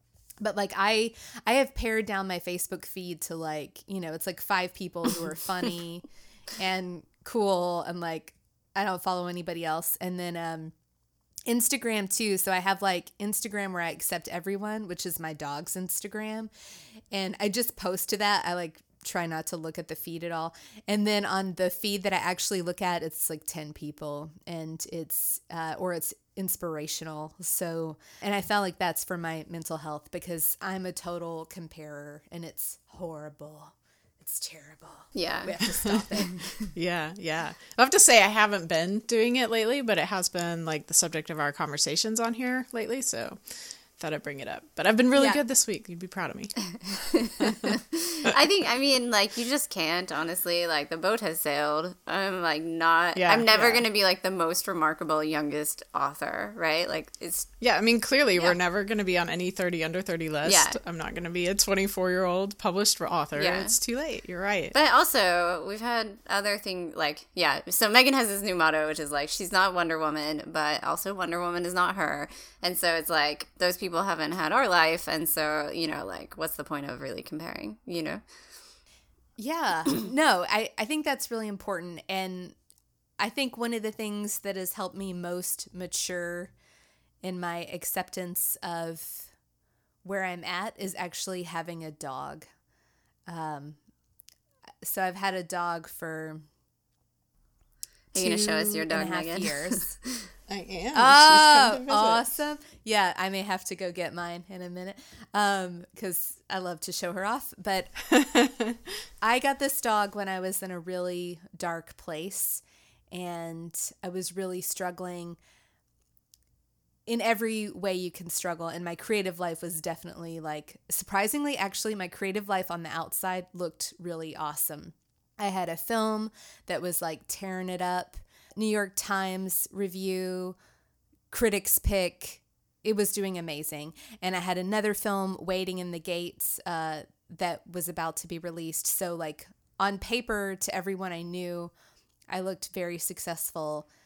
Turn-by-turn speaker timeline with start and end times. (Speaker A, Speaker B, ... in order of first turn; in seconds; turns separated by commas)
Speaker A: 0.4-10.7, Speaker A: 11.5-16.5, Speaker A: 17.1-36.5, Speaker B: 35.1-35.9, Speaker C: 36.6-46.9, Speaker B: 46.7-57.5, Speaker C: 47.4-47.7, Speaker C: 53.1-53.9, Speaker C: 57.6-64.7, Speaker B: 60.5-60.8, Speaker B: 63.4-63.8, Speaker B: 64.7-78.2, Speaker A: 79.4-82.5, Speaker A: 83.2-86.5, Speaker A: 87.2-89.3, Speaker A: 90.0-92.5, Speaker A: 93.3-93.8, Speaker A: 94.8-96.5, Speaker B: 98.1-100.3, Speaker A: 98.1-99.9, Speaker C: 100.5-102.3, Speaker A: 100.9-107.9, Speaker C: 108.1-108.8, Speaker A: 109.2-115.4, Speaker A: 117.1-130.6, Speaker A: 131.3-141.7, Speaker A: 142.3-143.9